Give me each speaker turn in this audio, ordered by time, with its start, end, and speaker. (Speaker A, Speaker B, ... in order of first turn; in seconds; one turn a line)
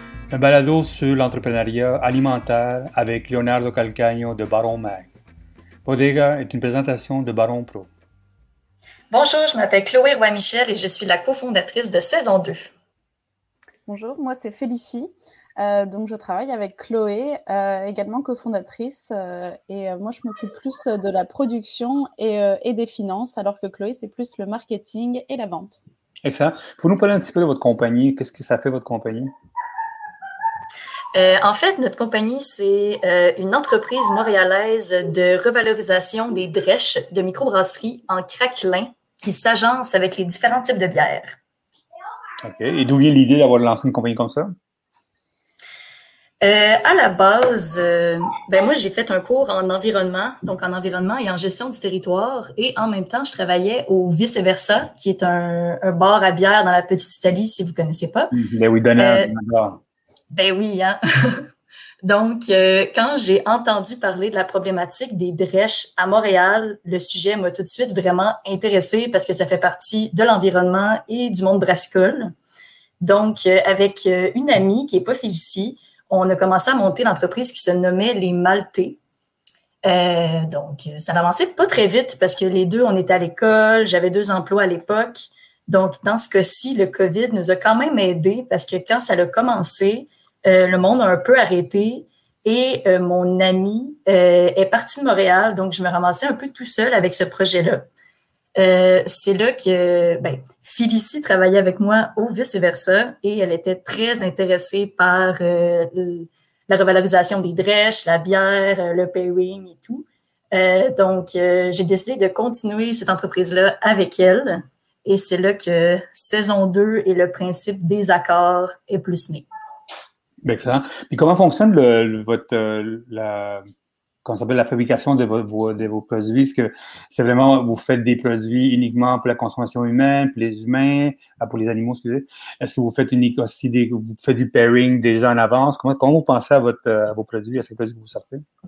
Speaker A: 0.3-5.1
Speaker A: 5.8-7.9
Speaker B: 9.1-12.7
Speaker C: 13.9-25.8
Speaker A: 26.2-29.3
Speaker B: 31.1-41.4
Speaker A: 42.4-44.5
Speaker B: 46.4-58.3
Speaker A: 58.3-59.8
Speaker B: 59.0-59.3
Speaker B: 60.3-61.5
Speaker B: 62.0-72.3
Speaker B: 73.0-79.0
Speaker B: 79.8-97.9
Speaker B: 98.6-119.5
Speaker A: 120.4-123.6
Speaker A: 124.2-138.4